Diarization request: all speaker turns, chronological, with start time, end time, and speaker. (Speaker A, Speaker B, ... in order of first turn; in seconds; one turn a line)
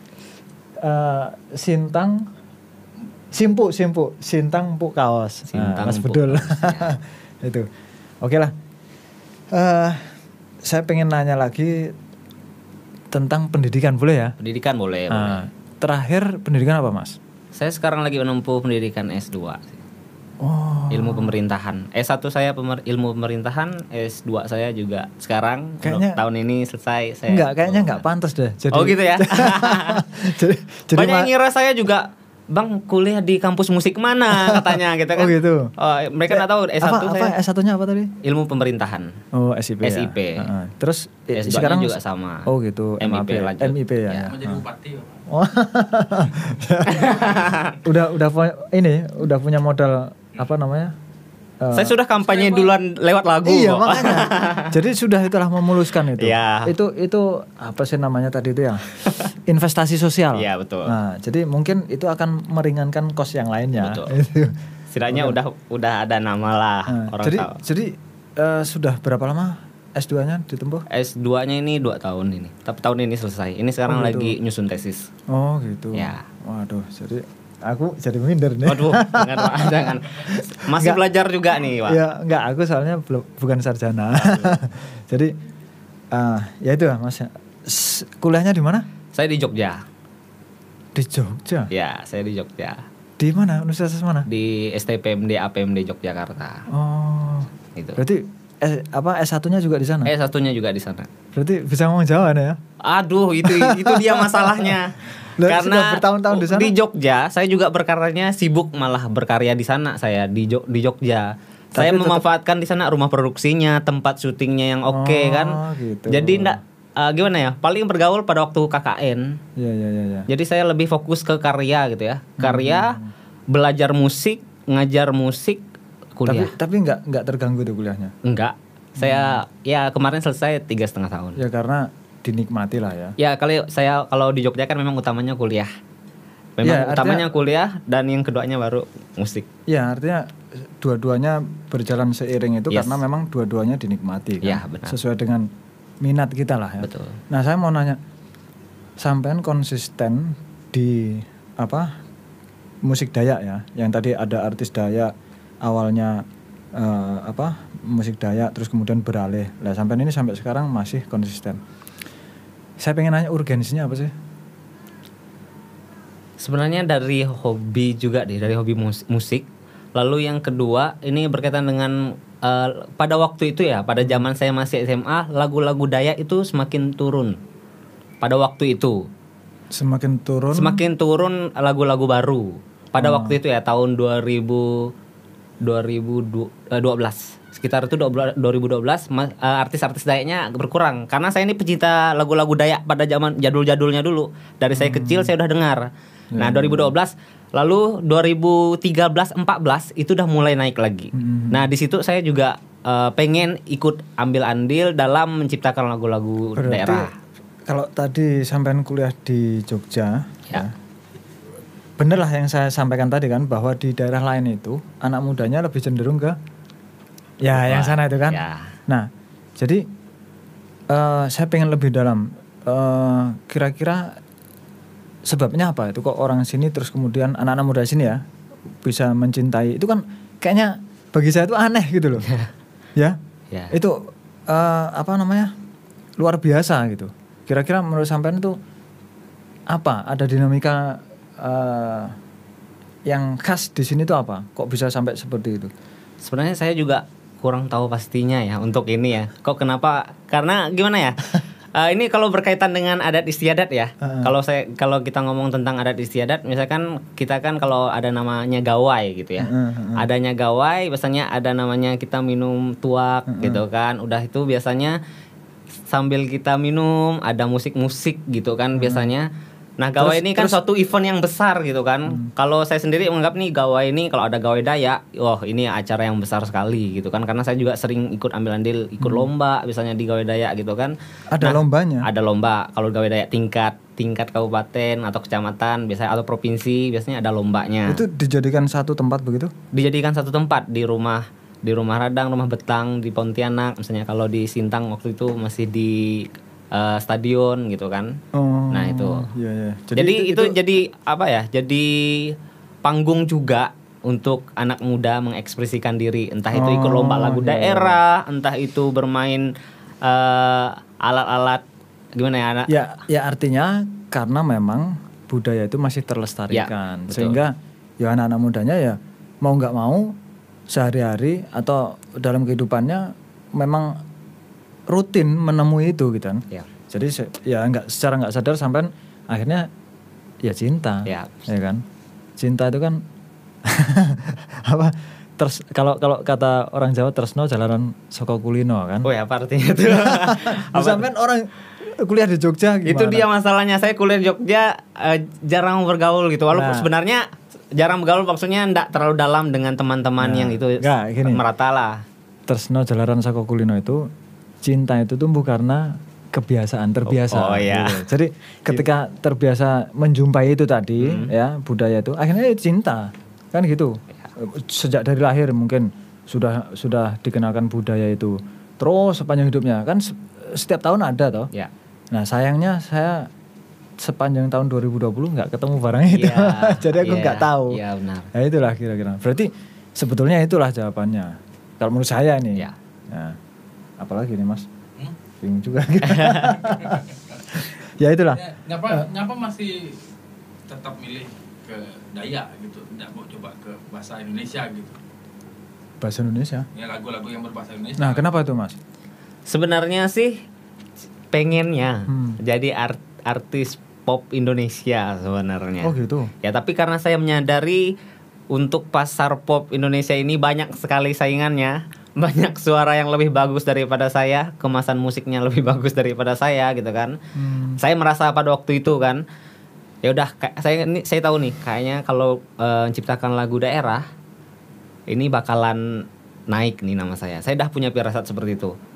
Speaker A: 0.8-2.3
Speaker A: 3.3-7.7
Speaker B: 5.5-7.0
Speaker A: 8.2-8.5
Speaker A: 9.5-11.9
Speaker A: 13.1-14.3
Speaker B: 14.4-15.4
Speaker A: 15.1-17.2
Speaker B: 17.6-19.8
Speaker A: 20.4-21.4
Speaker B: 20.9-28.0
Speaker A: 25.8-26.2
Speaker A: 27.3-31.3
Speaker B: 28.7-30.0
Speaker B: 30.9-37.3
Speaker A: 34.3-35.7
Speaker A: 36.3-38.1
Speaker B: 38.2-39.1
Speaker A: 39.3-44.6
Speaker B: 39.8-40.5
Speaker B: 41.4-44.3
Speaker C: 44.2-45.2
Speaker A: 45.3-47.2
Speaker B: 46.9-47.8
Speaker A: 47.8-50.9
Speaker A: 51.6-52.0
Speaker B: 51.7-54.7
Speaker C: 52.2-52.7
Speaker A: 53.5-58.9
Speaker B: 56.2-56.7
Speaker A: 59.5-64.5
Speaker B: 60.4-61.0
Speaker B: 63.8-64.1
Speaker B: 64.9-67.6
Speaker A: 65.1-65.4
Speaker A: 66.9-70.8
Speaker B: 70.9-75.1
Speaker A: 73.9-74.4
Speaker A: 75.3-81.0
Speaker B: 76.0-76.2
Speaker B: 78.7-82.0
Speaker A: 81.7-85.3
Speaker B: 84.1-84.6
Speaker A: 86.1-88.9
Speaker B: 89.1-89.8
Speaker A: 91.0-91.7
Speaker B: 91.7-92.8
Speaker A: 93.2-94.3
Speaker B: 94.3-96.7
Speaker A: 96.7-100.1
Speaker B: 97.8-98.0
Speaker B: 100.0-101.1
Speaker A: 101.3-102.6
Speaker B: 102.8-119.4
Speaker A: 103.4-104.8
Speaker A: 105.4-106.7
Speaker A: 111.8-112.2
Speaker A: 114.9-116.6
Speaker A: 119.6-120.3
Speaker B: 120.3-123.0
Speaker A: 122.4-123.1
Speaker B: 123.5-125.6
Speaker B: 126.2-126.5
Speaker A: 126.3-128.1
Speaker B: 128.2-131.4
Speaker A: 129.0-129.4
Speaker A: 131.4-133.2
Speaker B: 133.2-135.7
Speaker B: 136.6-139.5
Speaker A: 136.6-137.3
Speaker A: 139.7-145.5
Speaker B: 142.7-143.0
Speaker B: 144.4-145.0
Speaker A: 146.0-148.0
Speaker B: 146.8-147.2
Speaker A: 149.0-151.9
Speaker A: 152.9-155.1
Speaker A: 155.6-156.2
Speaker A: 156.8-161.6
Speaker A: 162.8-164.1
Speaker B: 166.4-177.4
Speaker B: 178.2-179.1
Speaker A: 179.7-180.8
Speaker B: 180.5-184.9
Speaker A: 183.0-183.4
Speaker B: 185.6-195.9
Speaker A: 194.8-195.3
Speaker A: 196.3-196.9
Speaker B: 196.4-207.2
Speaker A: 201.2-201.7
Speaker A: 206.6-207.1
Speaker A: 207.7-210.7
Speaker A: 212.0-216.4
Speaker A: 217.4-219.8
Speaker B: 217.5-218.7
Speaker A: 220.9-224.2
Speaker A: 225.3-228.2
Speaker A: 228.8-232.3
Speaker A: 233.7-235.5
Speaker A: 236.2-238.6
Speaker A: 239.7-242.2
Speaker A: 243.1-245.7
Speaker B: 246.2-265.0
Speaker A: 254.0-254.3
Speaker A: 259.4-260.1
Speaker A: 263.3-263.6
Speaker B: 265.9-269.3
Speaker A: 268.8-269.1
Speaker B: 269.8-288.0
Speaker A: 270.0-270.6
Speaker A: 279.0-279.3
Speaker A: 281.3-282.1
Speaker A: 287.9-289.5
Speaker B: 289.7-298.2
Speaker A: 298.3-300.6
Speaker B: 298.7-299.3
Speaker B: 300.0-309.5
Speaker A: 306.5-308.0
Speaker B: 310.0-311.6
Speaker B: 312.1-312.8
Speaker A: 312.7-320.2
Speaker B: 316.5-317.4
Speaker A: 320.7-324.0
Speaker A: 324.9-329.7
Speaker A: 330.4-331.8
Speaker B: 331.1-331.3
Speaker A: 332.4-333.0
Speaker A: 333.6-339.1
Speaker B: 339.0-341.1
Speaker A: 339.8-343.3
Speaker B: 342.8-352.0
Speaker A: 346.5-346.9
Speaker A: 350.2-351.4
Speaker A: 352.5-354.1
Speaker A: 354.6-371.5
Speaker B: 357.1-358.0
Speaker B: 361.0-361.3
Speaker A: 372.1-373.3
Speaker A: 374.0-377.8
Speaker B: 376.1-378.3
Speaker A: 378.3-383.4
Speaker A: 384.0-384.7
Speaker A: 385.4-389.0
Speaker B: 386.1-386.5
Speaker C: 386.6-387.6
Speaker C: 388.3-390.0
Speaker C: 390.7-395.0
Speaker A: 396.0-396.7
Speaker C: 396.8-398.3
Speaker A: 398.0-398.8
Speaker B: 399.5-400.4
Speaker B: 401.3-407.9
Speaker A: 402.1-402.4
Speaker A: 405.8-406.3
Speaker B: 408.5-417.2
Speaker A: 417.4-417.8
Speaker B: 417.8-419.2
Speaker B: 420.0-424.1
Speaker B: 425.1-428.7